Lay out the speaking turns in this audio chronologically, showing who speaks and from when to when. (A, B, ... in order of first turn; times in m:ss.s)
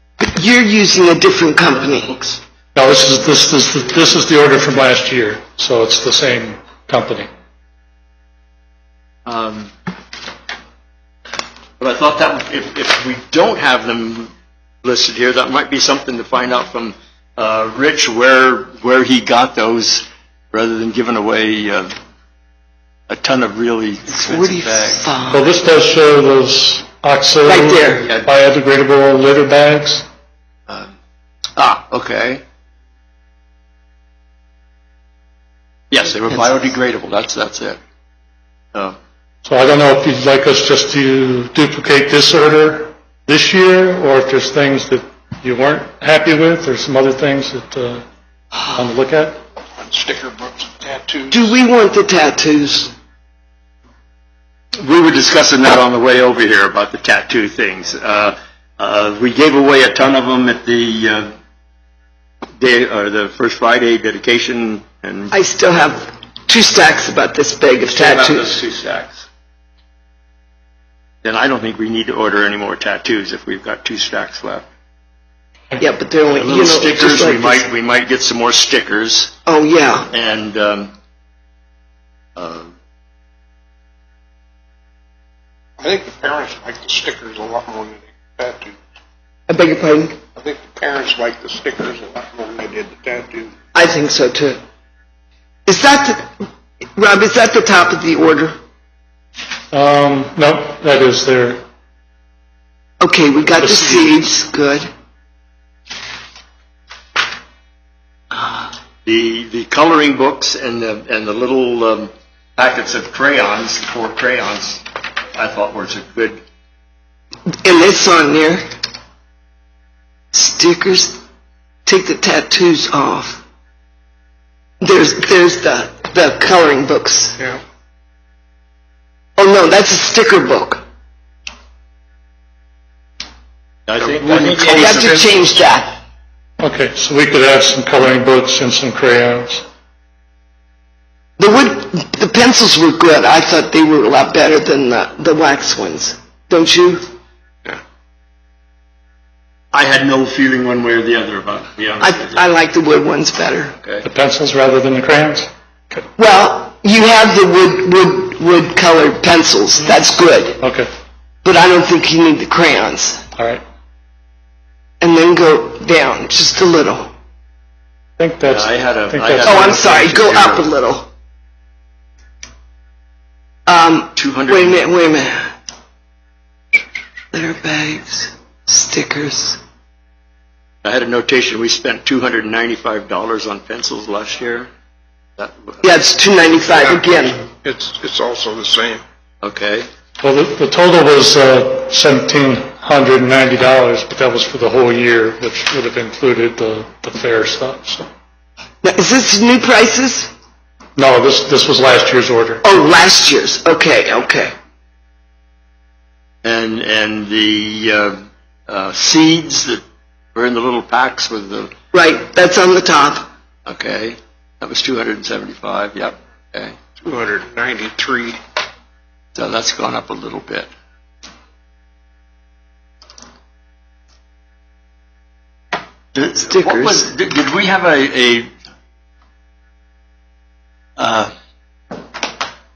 0:00.2-0:02.1 A
0:01.7-0:02.4 B
0:02.8-0:07.2 C
0:09.2-0:09.7 B
0:11.8-0:14.3 B
0:14.8-0:21.9 B
0:23.1-0:25.1 B
0:24.2-0:25.5 A
0:25.4-0:30.0 C
0:27.4-0:28.0 A
0:28.0-0:28.3 B
0:31.6-0:32.4 B
0:35.9-0:37.8 B
0:39.5-0:48.0 C
0:48.8-0:49.3 C
0:49.8-0:51.5 D
0:51.3-0:52.9 A
0:54.8-1:01.3 B
1:02.6-1:05.3 B
1:05.3-1:08.5 A
1:07.8-1:09.2 B
1:11.2-1:14.7 B
1:15.8-1:17.6 A
1:16.3-1:19.3 B
1:19.5-1:20.1 A
1:20.1-1:20.9 B
1:22.4-1:22.7 B
1:25.8-1:28.8 D
1:29.5-1:30.2 A
1:30.4-1:33.5 D
1:33.7-1:34.6 A
1:35.6-1:36.3 A
1:37.0-1:38.5 A
1:39.8-1:41.5 C
1:43.0-1:44.9 A
1:48.4-1:54.8 B
1:55.3-1:56.4 B
1:57.6-1:58.6 A
2:00.3-2:01.2 A
2:01.8-2:03.4 A
2:04.8-2:07.4 A
2:09.4-2:10.8 A
2:13.9-2:15.6 B
2:14.0-2:15.0 D
2:14.7-2:15.9 A
2:16.6-2:19.5 C
2:21.4-2:27.0 A
2:29.7-2:32.4 B
2:32.0-2:33.7 A
2:33.8-2:34.1 B
2:34.0-2:36.0 C
2:36.2-2:40.6 A
2:41.4-2:43.2 A
2:45.0-2:47.1 A
2:48.2-2:49.8 C
2:48.4-2:50.7 B
2:49.4-2:51.1 A
2:53.7-2:55.4 A
2:54.2-2:54.9 B
2:57.3-2:59.6 A
3:00.8-3:04.7 B
3:05.4-3:05.8 B
3:05.8-3:07.4 A
3:06.7-3:09.0 D
3:09.4-3:09.9 B
3:10.2-3:18.0 C
3:18.8-3:20.3 A
3:21.0-3:22.6 C
3:22.6-3:24.5 A
3:26.4-3:29.8 B
3:30.3-3:31.7 B
3:31.9-3:33.3 A
3:33.6-3:36.8 B
3:37.0-3:38.4 D
3:39.3-3:40.7 B
3:46.1-3:48.5 B
3:46.5-3:47.0 A
3:51.0-3:51.3 B